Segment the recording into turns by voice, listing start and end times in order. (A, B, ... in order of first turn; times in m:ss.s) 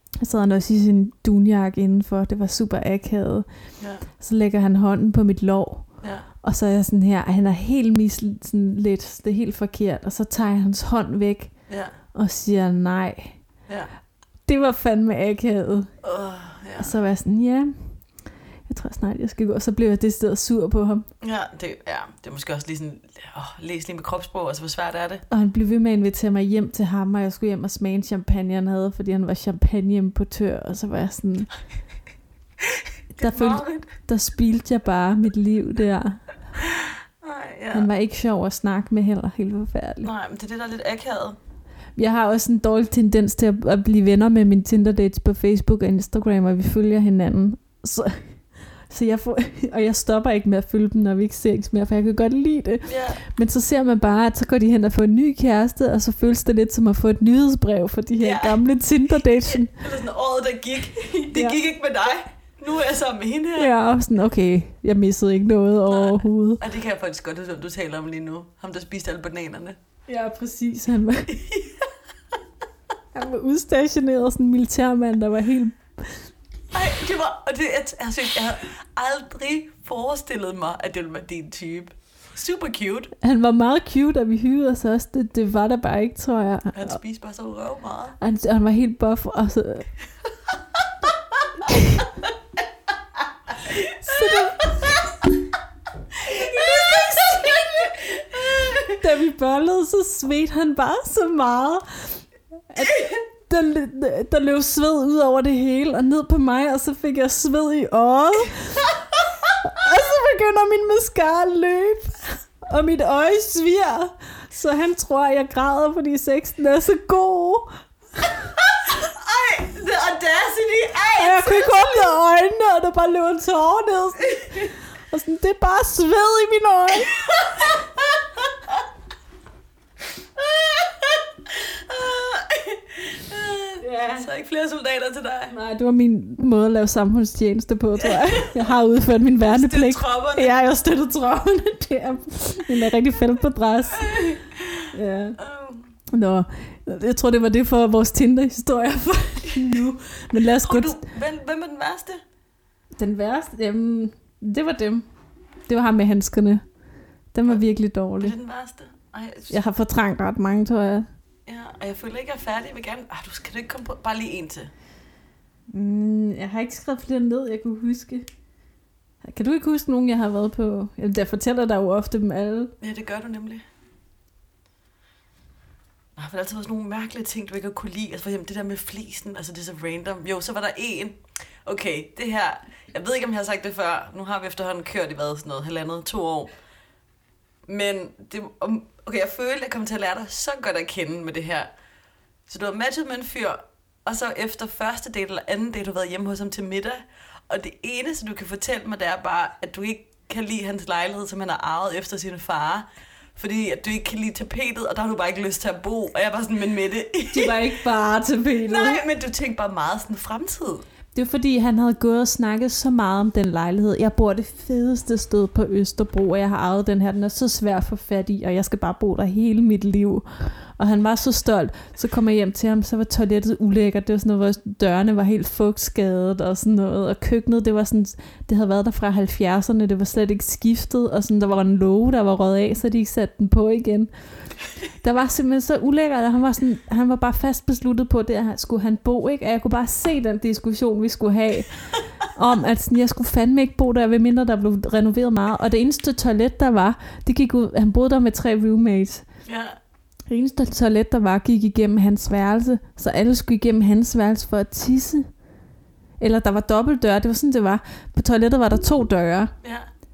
0:00.2-0:13.4 A
0:03.8-0:04.1 B
0:06.0-0:06.3 B
0:11.7-0:12.0 B
0:14.4-0:15.9 A
0:16.0-0:16.9 B
0:16.8-0:21.1 A
0:21.2-0:25.2 B
0:25.3-0:31.6 A
0:33.2-0:33.9 B
0:33.2-0:36.4 A
0:36.7-0:37.9 B
0:37.7-0:40.1 A
0:40.0-0:41.4 B
0:42.0-0:59.8 A
0:52.9-0:53.2 B
0:58.2-0:58.6 B
0:59.3-1:03.7 B
1:01.3-1:01.6 A
1:03.6-1:06.6 A
1:05.9-1:09.8 B
1:10.1-1:11.4 A
1:11.3-1:11.9 B
1:13.1-1:16.2 A
1:16.7-1:23.1 B
1:23.2-1:27.0 A
1:26.7-1:28.2 B
1:28.2-1:29.9 A
1:31.0-1:32.0 B
1:31.6-1:32.0 A
1:33.6-1:35.2 B
1:33.8-1:35.1 A
1:36.2-1:39.0 B
1:36.2-1:37.9 A
1:38.8-1:49.0 A
1:42.8-1:43.2 B
1:49.6-1:58.4 A
1:58.6-2:02.2 B
2:01.2-2:07.2 A
2:07.1-2:08.8 B
2:10.4-2:15.5 B
2:13.8-2:14.3 A
2:15.5-2:24.3 A
2:18.0-2:18.7 B
2:19.4-2:20.5 B
2:24.0-2:26.0 B
2:24.9-2:25.4 A
2:26.1-2:31.0 A
2:30.4-2:32.2 B
2:33.0-2:35.1 A
2:35.7-2:36.6 A
2:37.3-2:38.3 A
2:38.2-2:39.6 B
2:39.5-2:41.1 A
2:41.5-2:44.7 B
2:45.7-2:48.3 A
2:49.2-2:52.7 A
2:52.8-2:53.6 B
2:56.2-3:06.5 B
3:07.7-3:11.7 B
3:12.5-3:27.6 B
3:27.3-3:29.0 A
3:28.7-3:30.8 B
3:31.2-3:54.1 A
3:55.0-4:09.3 A
4:09.5-4:09.8 B
4:10.3-4:15.3 A
4:16.2-4:19.5 A
4:19.6-4:19.9 B